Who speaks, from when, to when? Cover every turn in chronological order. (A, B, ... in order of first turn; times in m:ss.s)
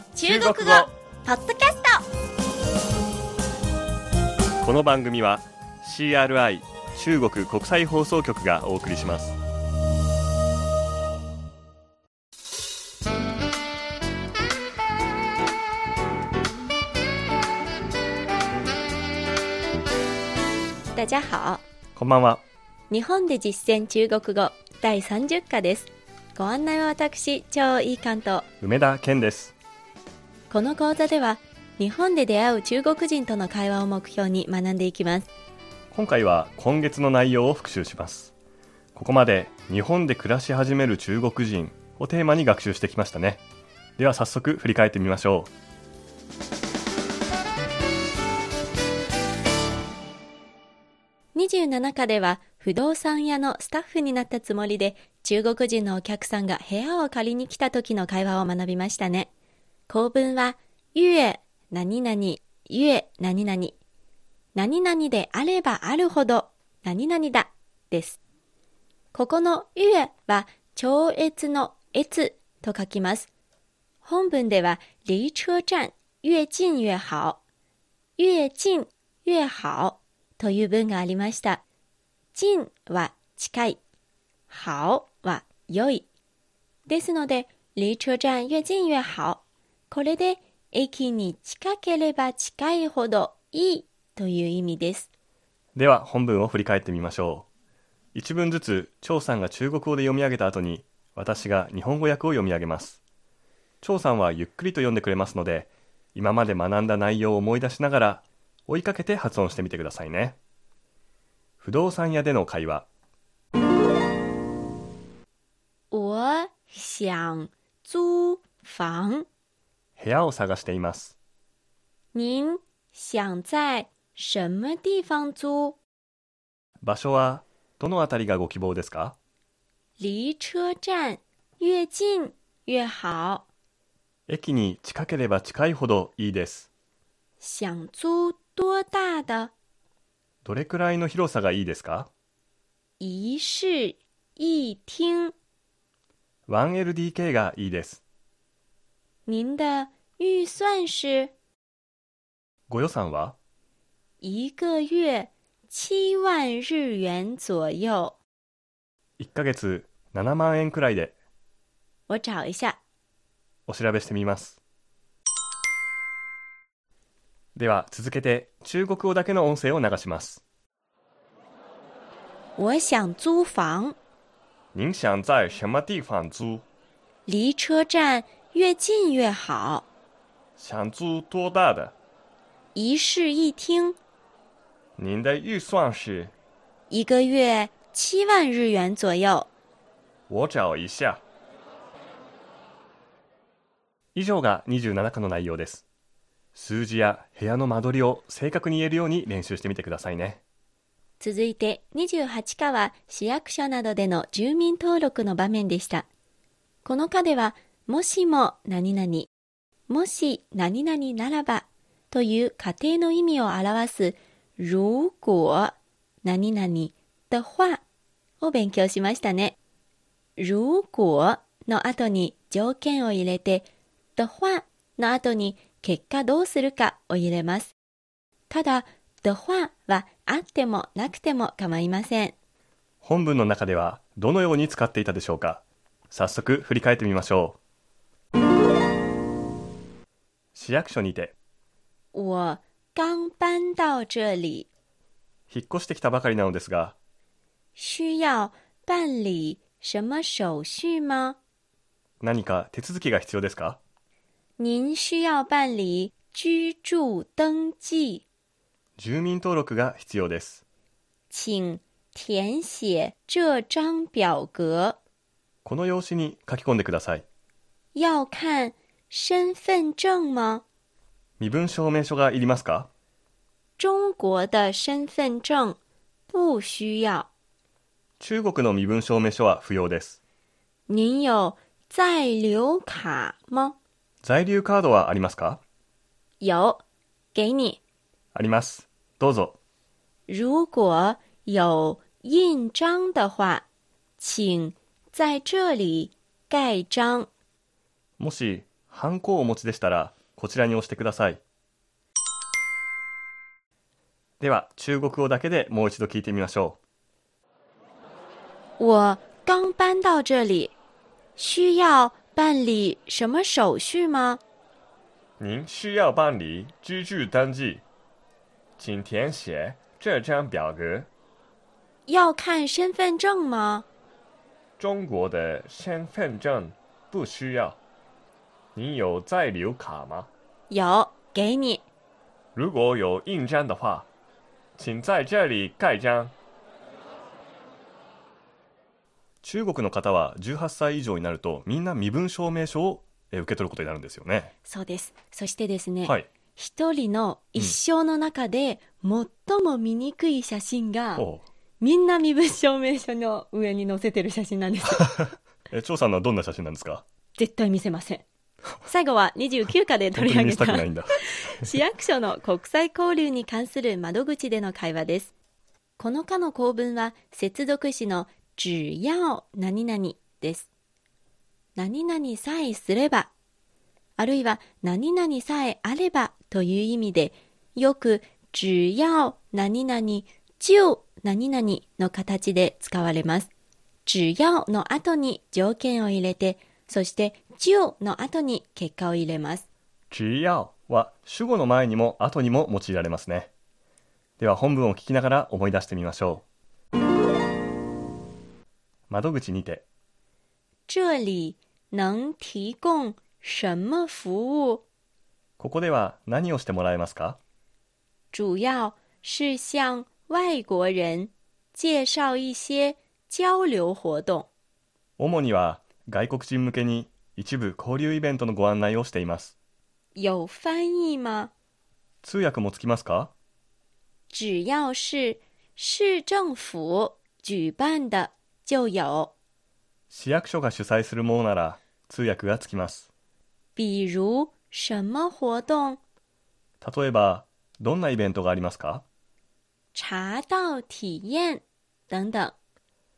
0:00.1-0:02.0 A
0:00.2-0:00.9 B
0:04.6-0:09.4 B
0:20.9-0:21.6 A
0:22.0-0:22.4 B
0:22.9-0:28.4 A
0:28.6-0:29.5 B
0:30.5-0:35.3 A
0:35.9-0:38.3 B
0:38.9-0:43.4 B
0:44.0-0:45.5 B
0:51.3-0:59.3 A
0:59.9-1:03.8 A
1:04.5-1:08.2 A
1:09.1-1:13.3 A
1:14.0-1:17.4 A
1:18.2-1:21.6 A
1:22.3-1:23.8 A
1:24.5-1:26.1 A
1:26.9-1:35.1 A
1:35.8-1:37.5 B
1:38.1-1:43.0 B
1:43.8-1:50.4 B
1:51.6-1:52.9 B
1:55.9-1:59.3 A
2:00.0-2:01.2 B
2:02.1-2:05.8 A
2:06.8-2:09.2 B
2:10.0-2:13.4 A
2:14.3-2:16.7 B
2:17.4-2:19.5 A
2:20.4-2:22.1 B
2:23.0-2:25.3 A
2:26.5-2:28.0 B
2:29.3-2:31.3 A
2:32.7-2:33.4 B
2:34.2-2:38.2 A
2:39.2-2:41.2 B
2:42.1-2:42.8 A
2:43.7-2:44.6 B
2:47.5-2:50.4 B
2:52.6-2:54.0 A
2:54.7-2:56.6 B
2:57.2-2:59.9 A
3:00.6-3:02.0 B
3:02.7-3:04.0 A
3:05.0-3:06.3 B
3:06.9-3:09.5 A
3:10.3-3:11.2 B
3:14.1-3:15.8 B
3:16.5-3:20.4 B
3:21.2-3:26.1 A
3:26.8-3:29.3 A
3:29.9-3:37.8 A
3:38.4-3:39.6 A
3:40.4-3:47.7 A
3:48.5-3:52.3 A
3:53.0-3:57.6 B
4:00.5-4:01.3 B
4:02.1-4:04.7 A
4:05.5-4:07.0 B
4:07.8-4:11.4 A
4:12.2-4:13.8 B
4:14.6-4:18.2 A
4:19.0-4:20.6 B
4:21.3-4:25.0 A
4:25.6-4:27.2 B
4:27.9-4:30.6 A
4:31.4-4:32.9 B
4:33.8-4:35.8 A
4:36.3-4:37.3 A
4:38.2-4:40.2 B
4:40.9-4:43.8 A
4:44.2-4:45.6 B
4:46.4-4:46.8 A
4:47.3-4:47.8 A
4:48.3-4:49.6 B
4:50.3-4:53.6 A
4:54.2-4:57.3 A
4:58.2-5:01.4 B
5:04.4-5:06.8 B
5:08.8-5:10.7 A
5:11.4-5:14.4 A
5:15.4-5:17.8 B
5:18.8-5:21.1 B
5:22.1-5:23.8 A
5:24.8-5:27.8 B
5:28.7-5:30.3 B
5:30.7-5:31.8 A
5:32.6-5:34.1 B
5:34.8-5:36.3 B
5:39.4-5:44.5 B
5:44.6-5:51.2 A
5:51.2-5:51.4 B
5:51.8-5:55.1 A
5:55.0-5:57.0 B
5:57.3-5:58.2 A
5:58.8-6:05.3 A
6:00.1-6:01.7 B
6:06.0-6:10.7 A
6:11.8-6:13.3 A
6:14.2-6:23.5 A
6:24.0-6:29.6 A
6:30.1-6:33.5 B
6:34.4-6:36.4 B
6:39.1-6:39.8 B
6:40.9-6:44.8 A
6:45.6-6:47.4 B
6:48.3-6:54.5 A
6:55.2-6:59.5 B
7:00.1-7:01.5 A
7:02.2-7:03.3 B
7:04.3-7:09.3 A
7:10.1-7:13.1 B
7:13.8-7:16.0 A
7:16.8-7:19.0 B
7:19.9-7:22.6 A